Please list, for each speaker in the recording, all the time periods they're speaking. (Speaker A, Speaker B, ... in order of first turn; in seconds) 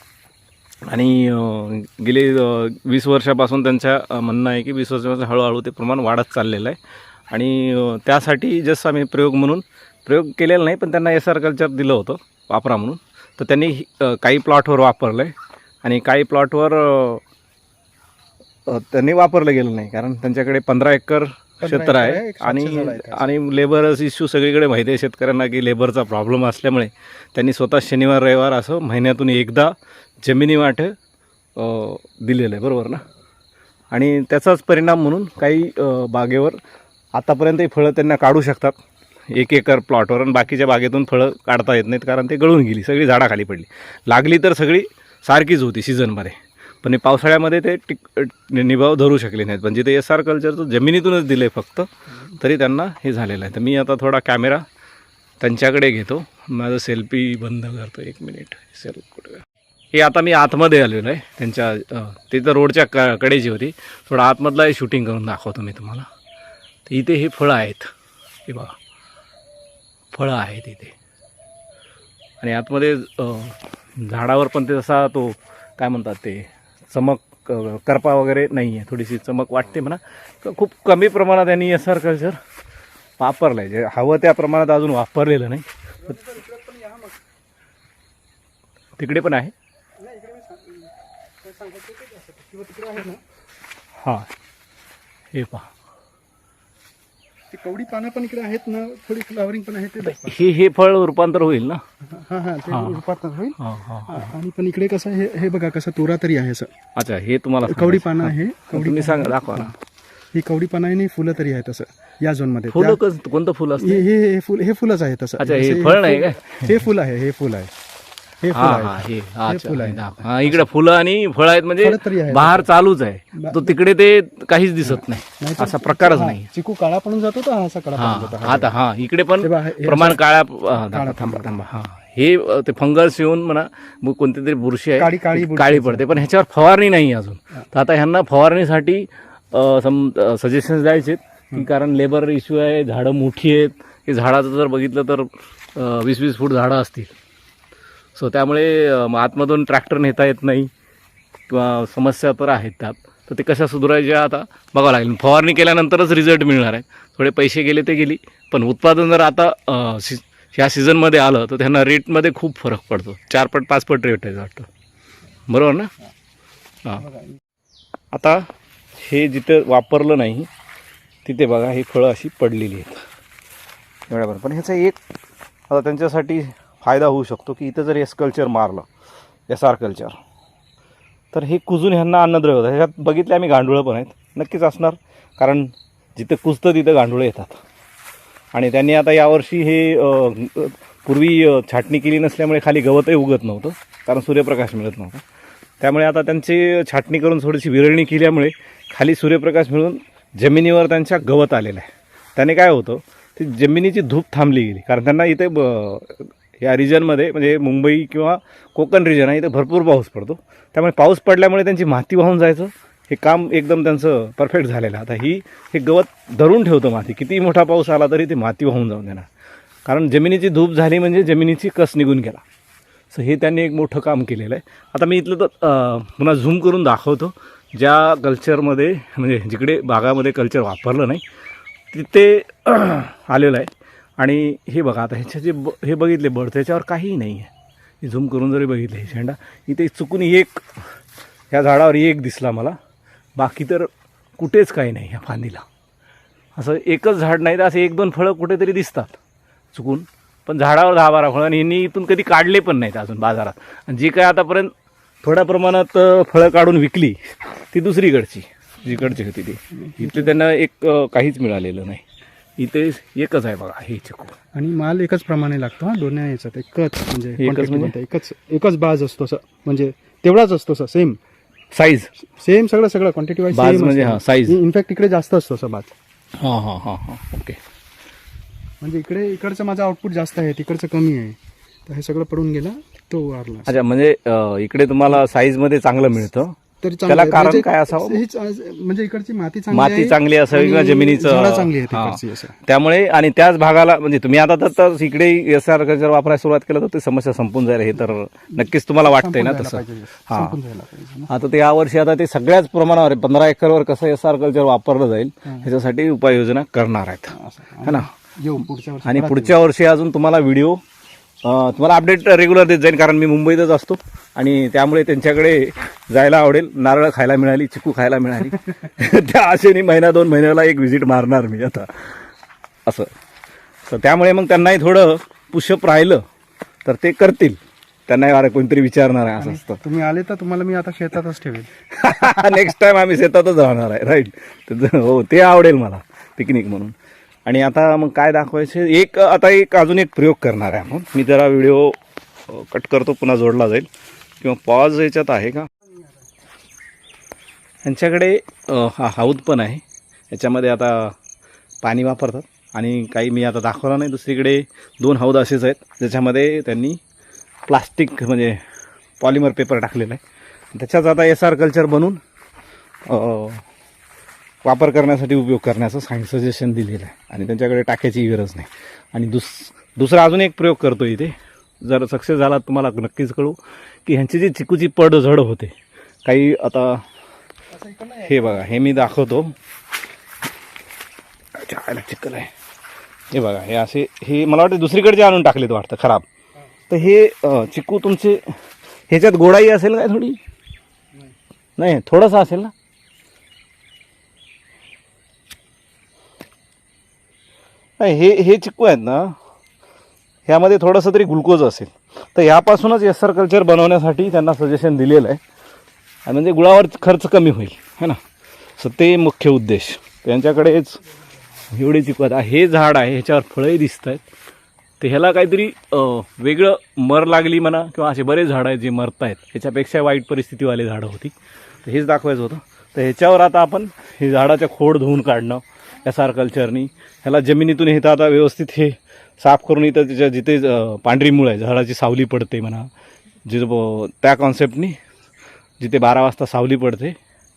Speaker A: 0.9-6.8, 7.3-17.2, 18.7-30.9, 31.6-33.0, 33.9-36.6, 37.1-38.8, 39.3-54.6, 55.4-66.1, 66.9-67.9, 68.5-68.8, 70.1-71.0, 72.4-82.4, 83.2-86.1, 89.0-89.5, 94.0-94.3, 95.3-95.7, 100.1-101.8, 102.7-103.0, 103.6-104.3, 107.0-109.7, 112.7-114.0, 115.4-116.8, 118.5-126.5, 128.0-147.1, 148.2-150.7, 151.5-164.7, 165.5-165.9, 168.1-170.5, 171.2-173.1, 174.1-175.0, 175.7-178.9, 179.5-180.2, 181.3-187.6, 188.5-195.2, 195.8-219.3, 219.9-222.4, 223.1-231.2, 231.9-237.5, 238.0-240.7, 241.5-242.8, 243.4-245.7, 246.6-249.2, 249.7-262.0, 262.6-264.4, 267.4-267.9, 271.7-272.1, 273.5-274.6, 276.4-277.6, 283.7-286.6, 287.1-288.2, 289.7-300.6, 301.3-307.3, 309.0-310.8, 311.4-322.2, 322.9-323.1, 323.9-326.2, 326.9-329.8, 331.9-336.9, 337.5-342.0, 342.5-343.9, 344.4-345.7, 347.8-351.1, 351.8-357.0, 357.7-358.6, 359.2-360.2, 360.7-362.2, 363.1-363.6, 364.6-375.7, 376.2-377.0, 378.2-379.5, 381.6-382.5, 383.3-386.3, 386.9-388.6, 389.1-390.4, 391.8-392.7, 398.0-399.4, 400.5-405.4, 406.3-408.2, 408.8-411.0, 411.7-414.2, 415.0-432.9, 433.5-435.0, 435.8-437.2
Speaker B: 21.6-23.3, 86.1-87.2, 90.0-90.9, 91.4-93.2, 97.5-100.4, 102.1-106.7, 107.7-109.7, 110.3-113.0, 113.8-117.7, 118.4-120.7, 121.8-122.7, 123.3-123.8, 124.8-128.8, 129.4-130.2, 130.8-131.6, 135.0-136.2, 167.0-167.4, 259.9-260.3, 264.5-271.2, 272.4-275.9, 278.8-283.7, 286.8-292.6, 298.6-301.3, 307.3-309.6, 329.4-332.7, 377.8-378.7